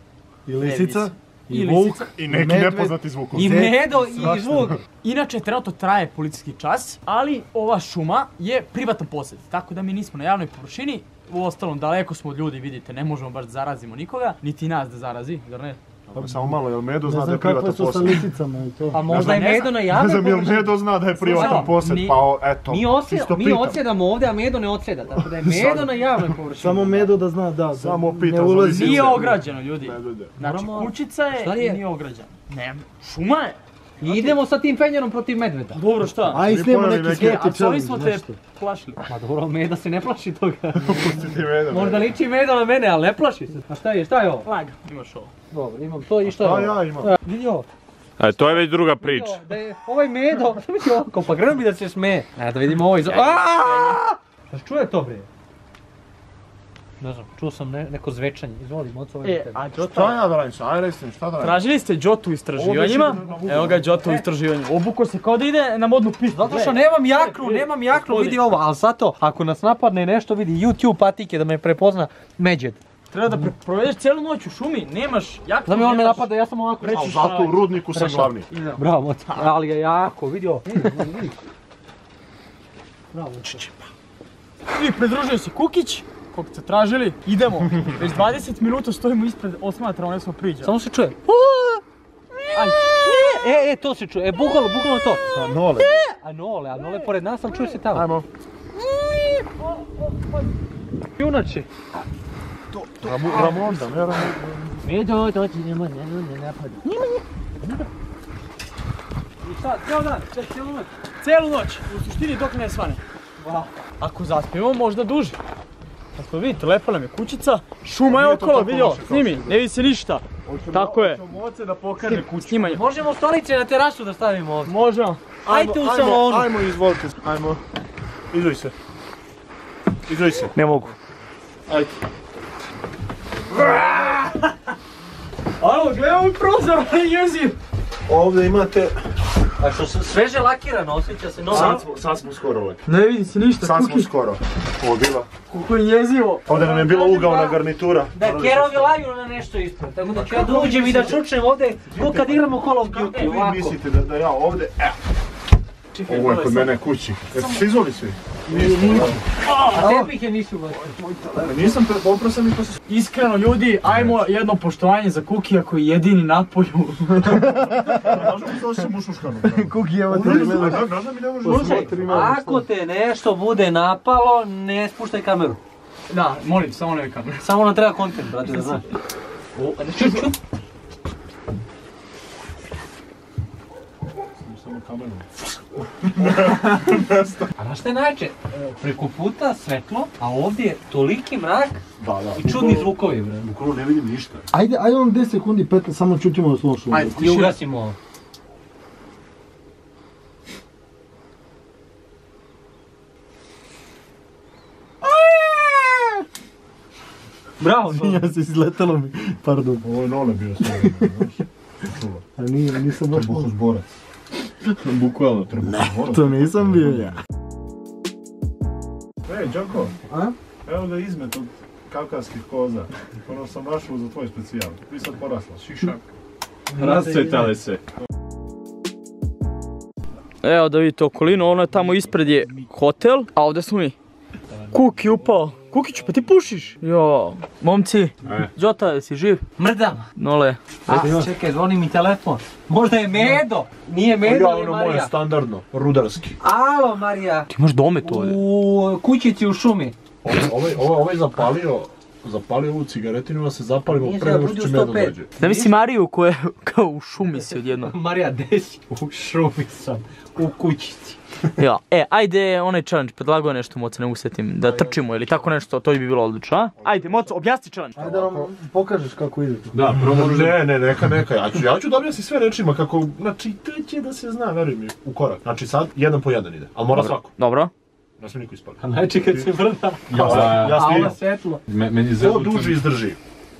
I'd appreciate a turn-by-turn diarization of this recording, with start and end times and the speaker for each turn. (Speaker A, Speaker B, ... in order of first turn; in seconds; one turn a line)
Speaker A: 0.5-1.7
Speaker B: 0.6-2.1
Speaker C: 1.7-4.8
Speaker A: 2.2-3.8
Speaker D: 3.3-4.8
Speaker B: 5.0-15.8
Speaker C: 16.1-18.2
Speaker A: 16.1-16.5
Speaker A: 17.1-19.1
Speaker D: 18.9-21.7
Speaker C: 19.1-23.8
Speaker B: 19.1-19.8
Speaker B: 21.3-22.2
Speaker D: 22.7-27.1
Speaker C: 25.1-26.4
Speaker A: 26.5-29.4
Speaker C: 27.8-30.4
Speaker B: 28.7-33.6
Speaker D: 30.4-31.8
Speaker D: 34.0-35.8
Speaker B: 35.7-36.5
Speaker A: 36.3-38.4
Speaker C: 36.4-37.4
Speaker B: 37.0-39.0
Speaker D: 39.1-44.5
Speaker C: 40.7-42.1
Speaker B: 44.4-45.3
Speaker D: 45.5-47.7
Speaker C: 46.2-47.1
Speaker E: 48.2-49.4
Speaker D: 48.8-55.3
Speaker B: 53.0-54.0
Speaker D: 57.0-59.6
Speaker B: 59.2-60.2
Speaker C: 59.8-61.6
Speaker B: 61.4-68.4
Speaker C: 62.5-63.9
Speaker D: 64.0-64.2
Speaker D: 66.3-73.5
Speaker B: 73.1-76.3
Speaker D: 75.6-77.1
Speaker B: 76.8-77.6
Speaker C: 76.8-78.5
Speaker D: 77.9-81.3
Speaker B: 78.5-79.5
Speaker D: 83.1-83.7
Speaker B: 84.7-90.7
Speaker D: 90.6-91.2
Speaker B: 91.3-91.8
Speaker B: 92.5-92.9
Speaker D: 92.9-95.3
Speaker C: 95.3-96.0
Speaker D: 96.0-98.1
Speaker C: 97.9-98.2
Speaker D: 101.2-101.7
Speaker C: 102.8-104.8
Speaker D: 103.3-103.6
Speaker D: 104.8-107.0
Speaker D: 109.4-110.9
Speaker B: 111.2-113.0
Speaker D: 113.4-113.7
Speaker B: 114.0-115.4
Speaker B: 116.1-121.2
Speaker C: 118.0-119.6
Speaker C: 120.4-122.6
Speaker B: 122.0-122.8
Speaker D: 122.1-124.7
Speaker B: 124.6-125.2
Speaker D: 125.5-126.6
Speaker C: 125.5-127.6
Speaker C: 128.3-128.7
Speaker C: 130.1-130.6
Speaker D: 130.6-130.9
Speaker B: 133.7-134.4
Speaker B: 135.6-137.6
Speaker C: 138.1-139.0
Speaker D: 139.6-141.8
Speaker C: 141.5-142.8
Speaker B: 141.5-141.8
Speaker B: 142.8-144.1
Speaker C: 143.6-145.3
Speaker B: 145.5-146.5
Speaker C: 146.4-148.9
Speaker D: 146.5-147.6
Speaker D: 148.1-153.8
Speaker C: 150.1-151.2
Speaker C: 151.9-152.5
Speaker B: 152.8-153.4
Speaker C: 153.1-155.0
Speaker D: 156.0-156.8
Speaker C: 156.1-159.9
Speaker D: 157.3-157.6
Speaker D: 158.5-161.4
Speaker B: 159.7-160.1
Speaker C: 161.3-162.8
Speaker B: 162.9-167.4
Speaker C: 163.8-164.2
Speaker C: 167.2-172.7
Speaker A: 167.6-168.1
Speaker A: 169.6-170.9
Speaker D: 170.1-170.8
Speaker A: 171.4-172.3
Speaker D: 171.4-175.6
Speaker B: 176.1-177.5
Speaker D: 177.4-178.8
Speaker B: 179.5-180.3
Speaker D: 179.9-180.3
Speaker C: 184.4-185.3
Speaker C: 186.2-187.4
Speaker D: 187.6-191.8
Speaker C: 192.0-194.4
Speaker D: 192.3-193.5
Speaker A: 194.5-197.2
Speaker D: 196.9-197.9
Speaker B: 197.1-197.6
Speaker D: 207.6-208.3
Speaker A: 207.9-209.8
Speaker C: 209.8-211.3
Speaker C: 211.9-212.2
Speaker A: 212.4-213.5
Speaker C: 213.1-213.8
Speaker E: 214.8-215.9
Speaker C: 215.5-217.0
Speaker A: 215.6-217.2
Speaker C: 219.2-219.9
Speaker D: 220.1-220.3
Speaker C: 220.6-225.9
Speaker B: 225.7-226.0
Speaker D: 226.7-227.5
Speaker E: 226.8-227.8
Speaker B: 230.4-233.9
Speaker B: 234.7-239.4
Speaker E: 238.2-238.5
Speaker D: 239.6-240.0
Speaker B: 240.2-240.6
Speaker D: 240.9-245.1
Speaker A: 240.9-241.3
Speaker C: 244.2-246.3
Speaker D: 246.4-249.9
Speaker B: 247.5-248.4
Speaker C: 250.2-255.3
Speaker D: 253.9-255.7
Speaker B: 255.4-257.9
Speaker D: 257.6-261.2
Speaker B: 261.6-268.0
Speaker D: 264.6-264.9
Speaker C: 266.8-267.3
Speaker A: 267.9-269.8
Speaker C: 268.0-268.5
Speaker E: 269.7-270.6
Speaker C: 270.0-277.3
Speaker B: 276.9-277.7
Speaker C: 278.2-279.5
Speaker D: 278.8-281.6
Speaker C: 280.1-281.2
Speaker E: 280.2-280.9
Speaker E: 281.7-282.9
Speaker C: 282.2-283.2